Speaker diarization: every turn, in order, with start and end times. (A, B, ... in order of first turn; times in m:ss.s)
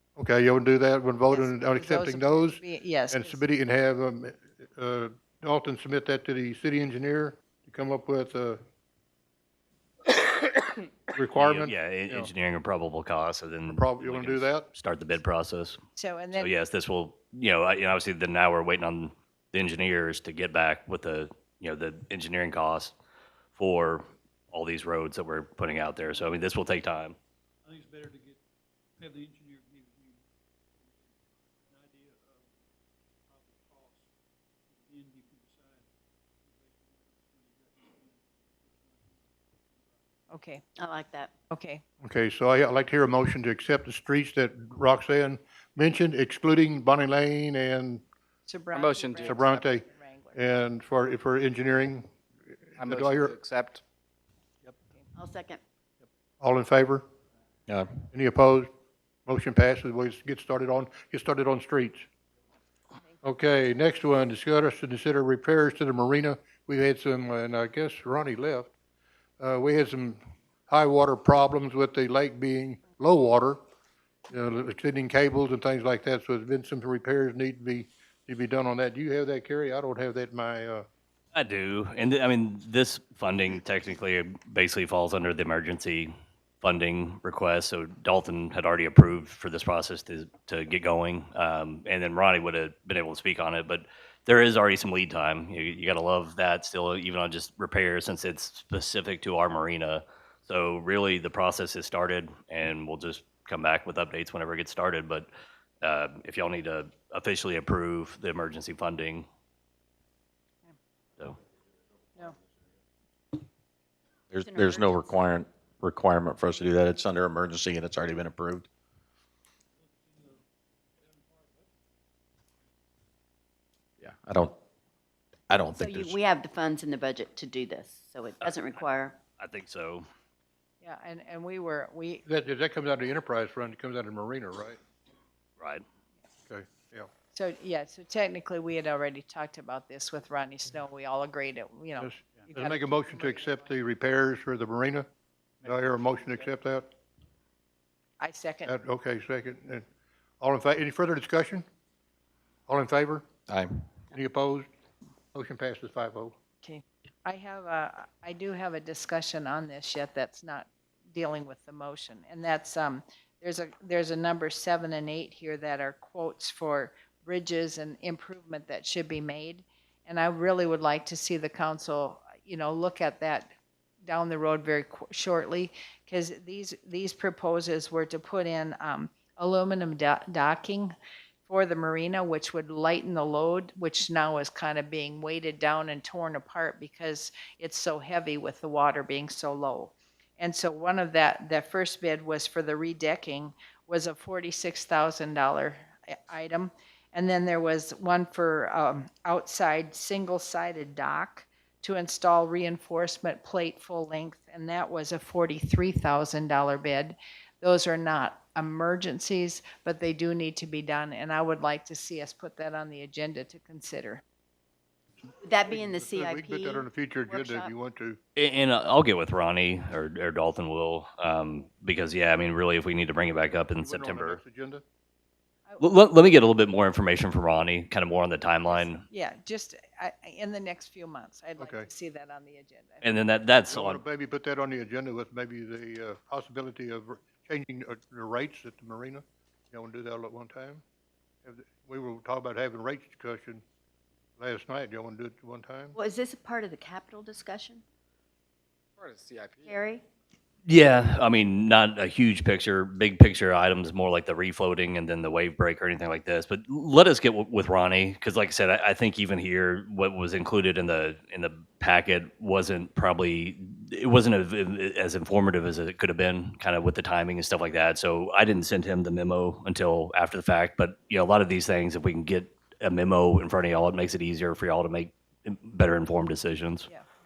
0:00.2-0:08.6 A
0:01.3-0:03.4 B
0:11.1-0:12.3 A
0:11.4-0:15.8 C
0:13.7-0:14.7 A
0:16.0-0:16.5 B
0:16.3-0:22.9 C
0:23.6-0:27.2 C
0:27.6-0:28.4 D
0:29.0-0:30.2 D
0:30.8-0:32.6 D
0:33.3-0:34.1 D
0:34.7-0:35.9 D
0:36.4-0:40.0 D
0:40.3-0:40.6 B
0:40.8-0:41.3 E
0:41.5-0:41.8 B
0:42.0-0:48.0 A
0:48.5-0:50.4 B
0:48.7-0:49.4 F
0:49.2-0:52.1 A
0:52.8-0:53.8 F
0:52.8-0:53.4 A
0:55.2-0:55.6 E
0:56.4-0:57.0 A
0:57.7-0:58.0 G
0:58.1-0:58.7 A
0:59.3-1:02.1 A
1:03.2-1:08.7 A
1:09.4-1:13.6 A
1:14.3-1:20.9 A
1:21.3-1:45.3 C
1:45.8-1:49.3 C
1:54.3-1:58.7 G
1:54.4-1:55.1 E
1:59.8-2:01.7 D
2:04.0-2:04.6 G
2:05.5-2:06.2 G
2:05.8-2:09.2 E
2:08.4-2:08.8 C
2:09.4-2:10.1 C
2:10.8-2:12.2 B
2:12.3-2:14.8 A
2:15.6-2:15.8 C
2:16.5-2:17.1 A
2:17.3-2:23.7 B
2:22.0-2:25.1 A
2:25.6-2:26.4 D
2:25.7-2:26.9 A
2:28.2-2:28.7 B
2:28.7-2:29.8 A
2:30.4-2:31.6 A
2:32.7-2:33.3 A
2:33.5-2:33.9 G
2:34.1-2:34.7 A
2:35.3-2:36.4 A
2:36.6-2:53.5 B
2:54.0-3:00.9 B
3:01.5-3:34.2 B
3:35.4-3:37.7 E
3:35.6-3:38.2 A
3:38.4-3:44.4 C
3:43.8-3:44.8 A
3:45.8-3:49.0 C
3:48.7-3:53.1 B
3:51.6-3:51.9 A
3:53.0-3:54.0 C
3:53.7-4:00.8 A
4:01.4-4:03.6 A
4:04.4-4:06.0 A
4:05.9-4:07.8 E
4:09.0-4:09.9 F
4:09.7-4:10.0 E
4:10.6-4:36.9 C